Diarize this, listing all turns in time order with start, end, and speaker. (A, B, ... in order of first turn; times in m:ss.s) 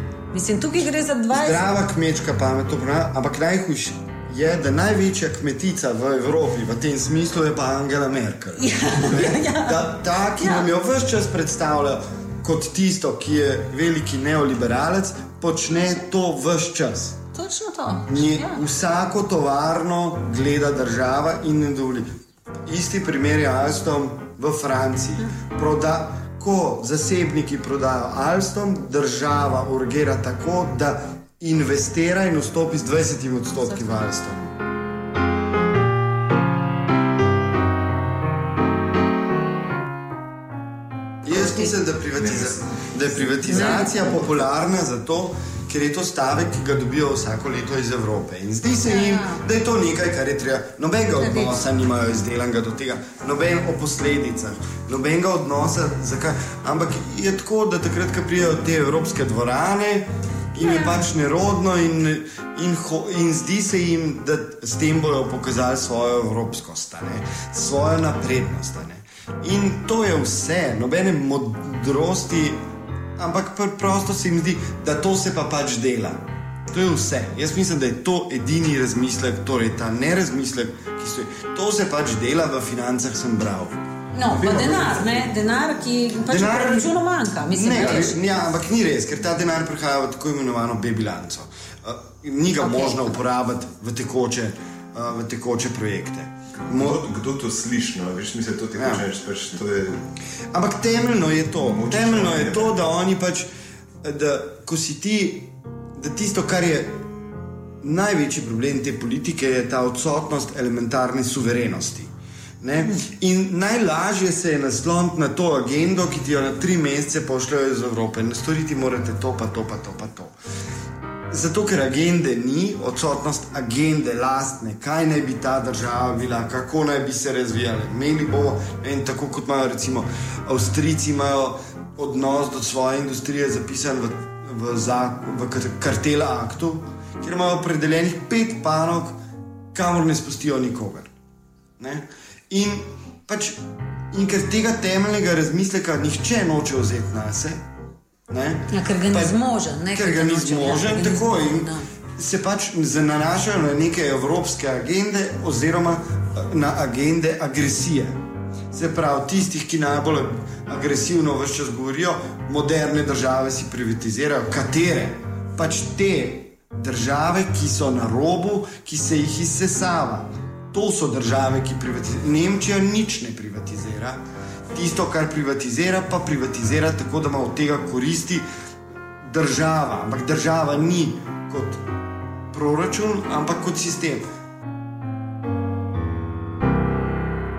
0:00.3-0:01.7 A
0:01.3-0:17.2 B
0:08.6-0:10.7 A
0:17.3-0:18.6 A
0:18.1-0:22.1 B
0:22.7-0:34.6 B
0:41.2-1:12.6 B
0:41.3-0:41.7 A
0:42.2-0:42.6 C
0:43.4-0:44.0 A
0:48.9-0:49.4 A
0:51.2-0:51.5 A
1:00.6-1:01.1 A
1:13.2-1:25.3 B
1:24.1-1:28.2 A
1:26.3-1:27.0 B
1:27.5-1:37.0 B
1:32.6-1:33.1 A
1:36.7-1:40.0 C
1:38.8-1:39.0 B
1:40.5-1:43.5 B
1:41.6-1:42.7 C
1:44.0-1:47.0 B
1:47.8-2:00.4 B
2:01.3-2:19.2 B
2:19.7-2:21.1 B
2:21.8-2:23.6 B
2:24.1-2:27.6 B
2:28.3-2:29.4 B
2:28.7-2:31.9 A
2:29.9-2:38.2 B
2:38.7-2:54.2 B
2:54.7-2:58.4 B
2:59.2-3:01.8 B
3:02.5-3:04.2 B